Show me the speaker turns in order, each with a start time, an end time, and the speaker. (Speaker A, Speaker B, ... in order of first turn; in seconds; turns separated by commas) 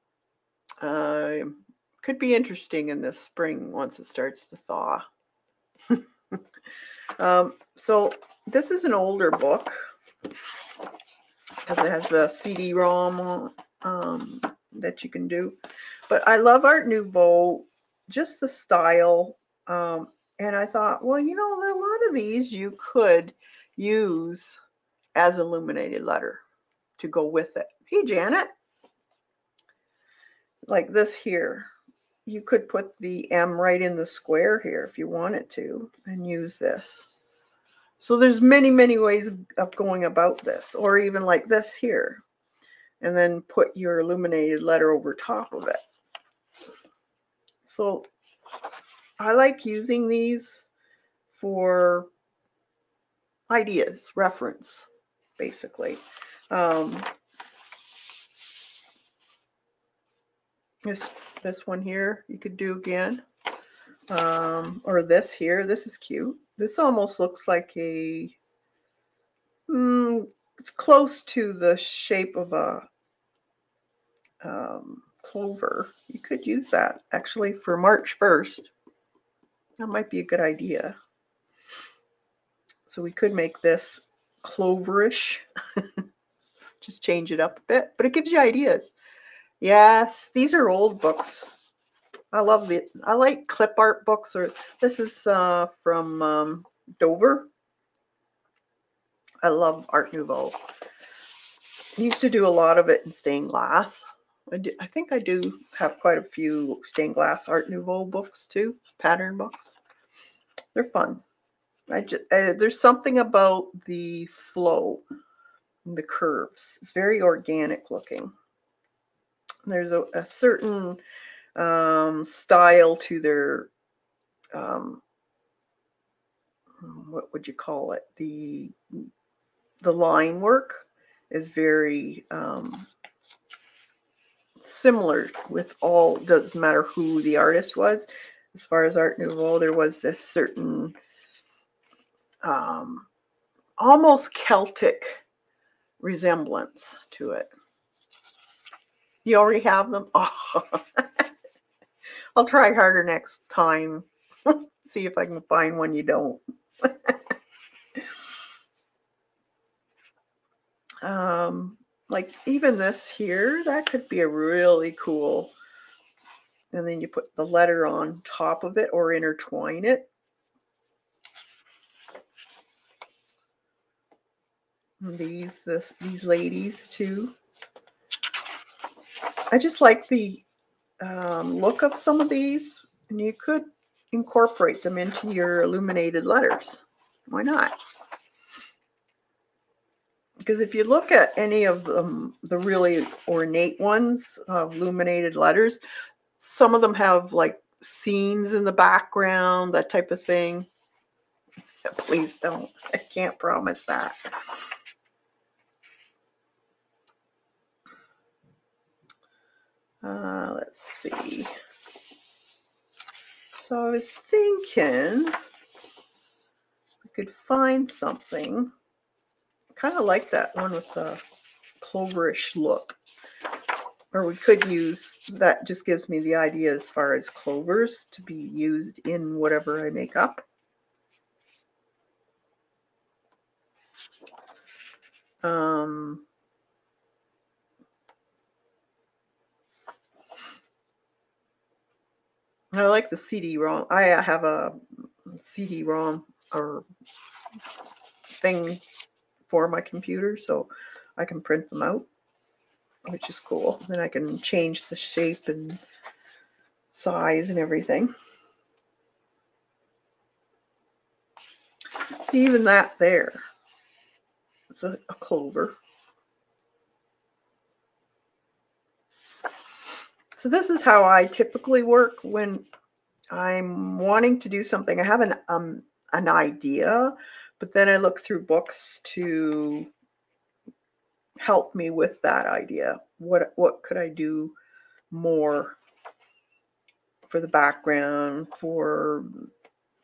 Speaker A: 0.8-5.0, Speaker A: 5.9-6.4, Speaker A: 7.2-9.8, Speaker A: 11.7-15.6, Speaker A: 16.1-24.6, Speaker A: 25.1-26.4, Speaker A: 27.0-28.5, Speaker A: 30.7-31.7, Speaker A: 32.2-37.1, Speaker A: 38.0-42.2, Speaker A: 43.0-45.8, Speaker A: 47.6-48.1, Speaker A: 49.2-50.7, Speaker A: 51.3-52.1, Speaker A: 53.5-57.1, Speaker A: 60.9-63.2, Speaker A: 64.1-68.4, Speaker A: 69.7-72.9, Speaker A: 74.4-78.7, Speaker A: 79.8-80.9, Speaker A: 82.9-86.0, Speaker A: 86.8-88.9, Speaker A: 89.6-91.5, Speaker A: 92.3-97.5, Speaker A: 99.4-100.6, Speaker A: 102.0-109.8, Speaker A: 110.7-111.2, Speaker A: 111.9-115.0, Speaker A: 115.8-118.3, Speaker A: 119.6-121.0, Speaker A: 121.5-123.7, Speaker A: 124.5-125.0, Speaker A: 126.8-129.1, Speaker A: 129.8-132.9, Speaker A: 134.6-140.9, Speaker A: 142.4-143.1, Speaker A: 143.8-145.2, Speaker A: 146.0-147.5, Speaker A: 149.2-151.2, Speaker A: 152.4-157.2, Speaker A: 161.0-165.5, Speaker A: 166.7-170.1, Speaker A: 175.0-177.3, Speaker A: 179.5-180.4, Speaker A: 181.0-187.8, Speaker A: 190.4-195.8, Speaker A: 196.4-200.7, Speaker A: 201.8-204.2, Speaker A: 210.0-211.5, Speaker A: 213.5-215.4, Speaker A: 217.0-218.7, Speaker A: 219.8-221.2, Speaker A: 221.8-223.0, Speaker A: 224.1-230.4, Speaker A: 235.4-236.2, Speaker A: 242.7-246.8, Speaker A: 248.4-248.8, Speaker A: 249.5-252.1, Speaker A: 253.1-255.8, Speaker A: 256.9-258.1, Speaker A: 262.2-263.4, Speaker A: 264.7-265.8, Speaker A: 270.4-272.7, Speaker A: 273.3-279.9, Speaker A: 281.4-284.6, Speaker A: 285.1-285.8, Speaker A: 287.3-289.5